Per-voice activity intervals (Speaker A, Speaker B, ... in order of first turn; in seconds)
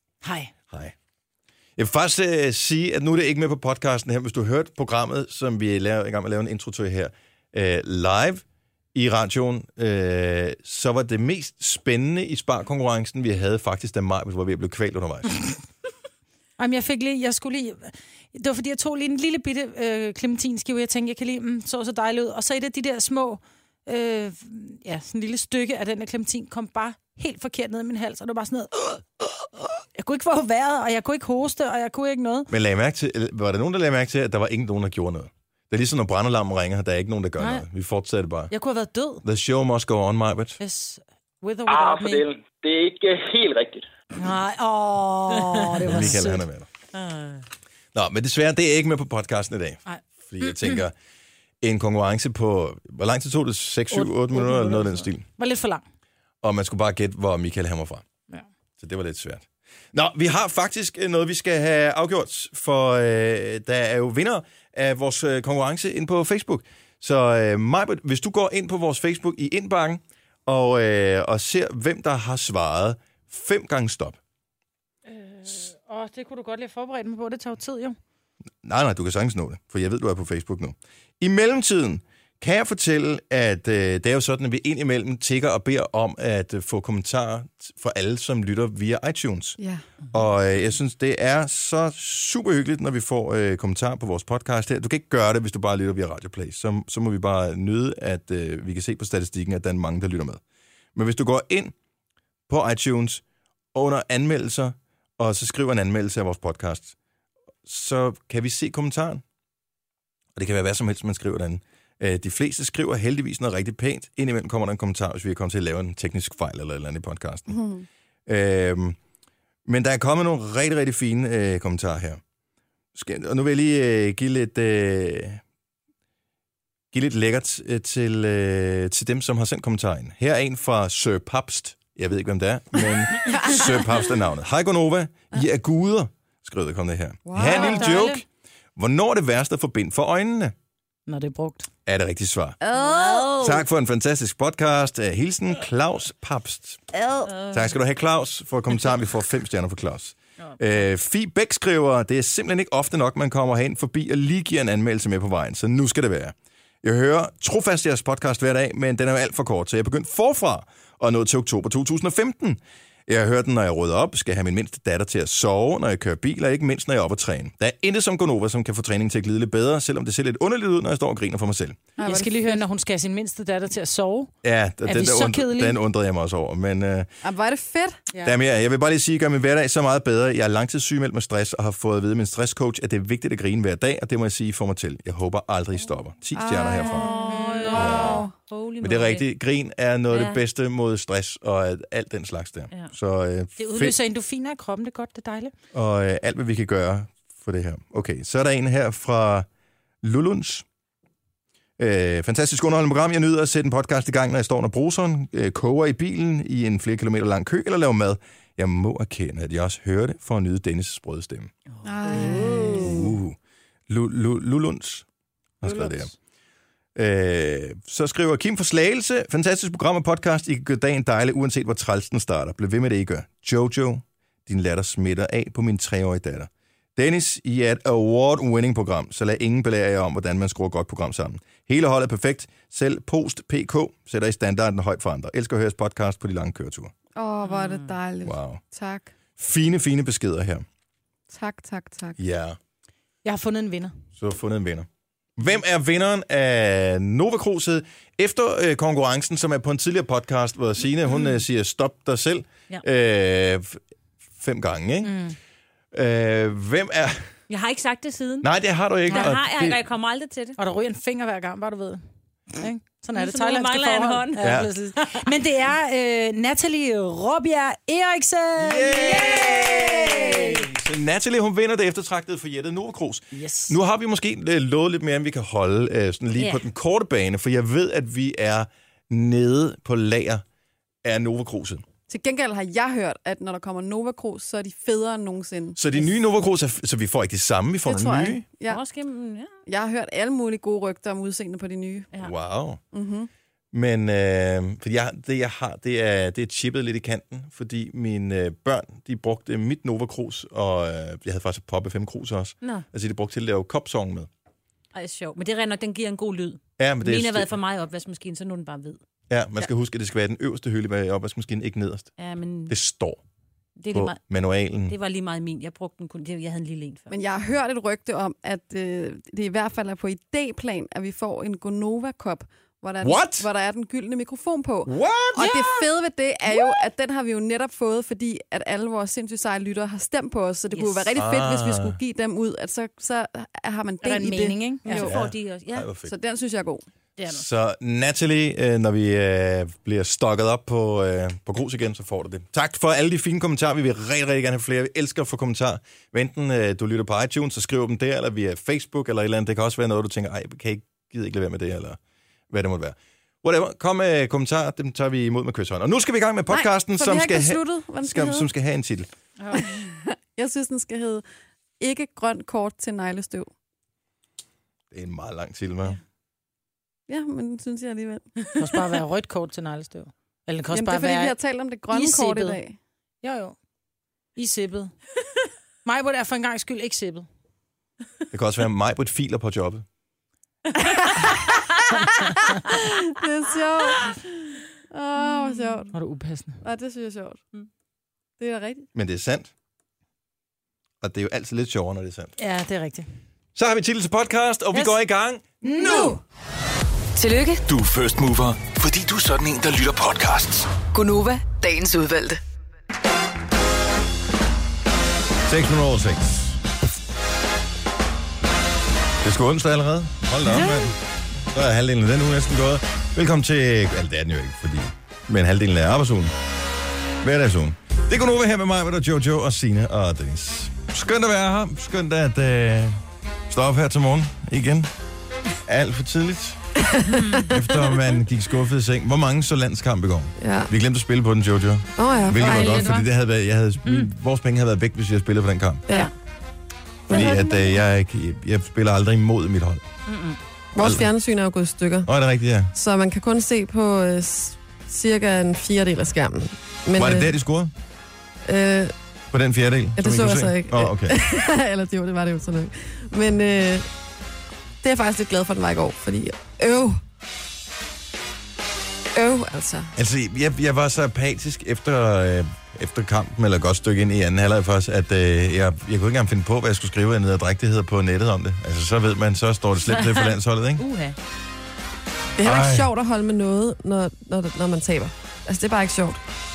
Speaker A: 0.2-0.5, 16.6-32.5, 37.4-37.6, 38.5-39.2, 40.6-42.3, 44.1-46.4, 49.9-50.8, 53.9-55.8, 75.1-78.0, 137.4-138.2, 141.1-141.7, 172.0-174.3, 174.8-175.8, 187.0-188.3, 193.6-195.5, 212.2-212.5, 243.2-243.9, 255.0-255.3, 260.6-262.0, 262.5-270.5, 273.3-273.8, 334.0-335.1, 368.5-371.3, 371.9-372.6, 373.2-373.6, 374.4-374.9, 375.8-377.3, 385.9-386.6, 392.4-393.1, 395.6-396.2, 432.3-433.1
Speaker B: 0.7-0.9, 1.8-8.4, 8.9-15.3, 32.5-38.5, 39.2-40.6, 45.8-46.7, 47.9-50.9, 51.6-55.2, 56.4-58.0, 58.8-74.2, 78.6-89.6, 90.1-100.4, 100.9-101.7, 102.5-103.2, 103.7-106.9, 107.6-109.2, 110.3-117.6, 118.3-119.0, 119.7-122.2, 122.9-125.4, 126.9-138.2, 138.8-140.5, 141.8-142.6, 143.3-146.8, 147.5-171.8, 174.4-177.1, 178.2-187.1, 187.7-188.2, 188.8-193.9, 195.7-199.5, 200.0-200.6, 201.8-211.5, 212.2-213.4, 213.9-215.1, 215.6-216.1, 216.9-236.9, 238.2-238.6, 239.4-240.6, 242.2-242.6, 244.2-253.8, 254.4-255.2, 255.9-257.3, 258.4-259.8, 264.4-264.7, 268.6-280.4, 281.0-281.8, 285.8-288.4, 292.2-292.8, 293.7-304.3, 306.8-307.5, 309.3-312.1, 312.7-313.2, 313.9-314.9, 323.0-323.5, 324.9-325.8, 331.1-332.0, 335.0-336.1, 337.3-352.0, 352.5-359.1, 364.9-366.0, 378.3-379.8, 388.9-389.5, 391.0-392.3, 393.5-396.2, 405.5-406.6, 409.2-410.9, 411.5-416.3, 417.2-424.9, 425.6-426.6, 427.5-435.9, 437.1-439.8, 440.8-441.1, 442.0-442.7, 446.9-447.7, 449.3-451.2, 459.9-470.8, 472.4-472.9
Speaker C: 41.7-43.8
Speaker D: 46.9-47.4, 142.7-143.6, 147.2-147.7, 187.0-189.2, 190.1-190.4, 212.1-212.7, 237.4-237.9, 257.5-258.5, 259.1-260.6, 263.1-264.4, 276.4-276.6, 288.6-289.5, 304.9-309.0, 312.2-312.7, 313.8-314.2, 314.9-317.1, 330.7-331.1, 334.8-335.9, 359.4-359.8, 440.1-440.4, 469.9-471.1
Speaker E: 117.5-117.9, 133.3-133.8, 137.2-138.0, 142.6-143.4, 172.0-172.6, 177.2-178.2, 186.3-188.2, 211.9-213.1, 237.1-239.1, 241.3-242.2, 282.1-285.8, 287.9-288.8, 289.6-292.1, 292.9-293.3, 317.1-335.1, 336.0-336.8, 356.5-358.5, 359.5-361.2, 361.8-363.5, 367.1-368.5, 370.7-372.8, 380.8-385.9, 386.6-387.4, 388.4-388.9, 426.9-427.6, 430.4-430.7, 432.0-432.9, 437.1-437.7, 440.7-442.1, 442.7-447.3, 448.4-448.9, 450.0-453.9, 454.8-457.0, 459.1-459.9, 472.4-476.2
Speaker F: 397.1-397.6, 400.9-402.4
Speaker G: 397.6-400.7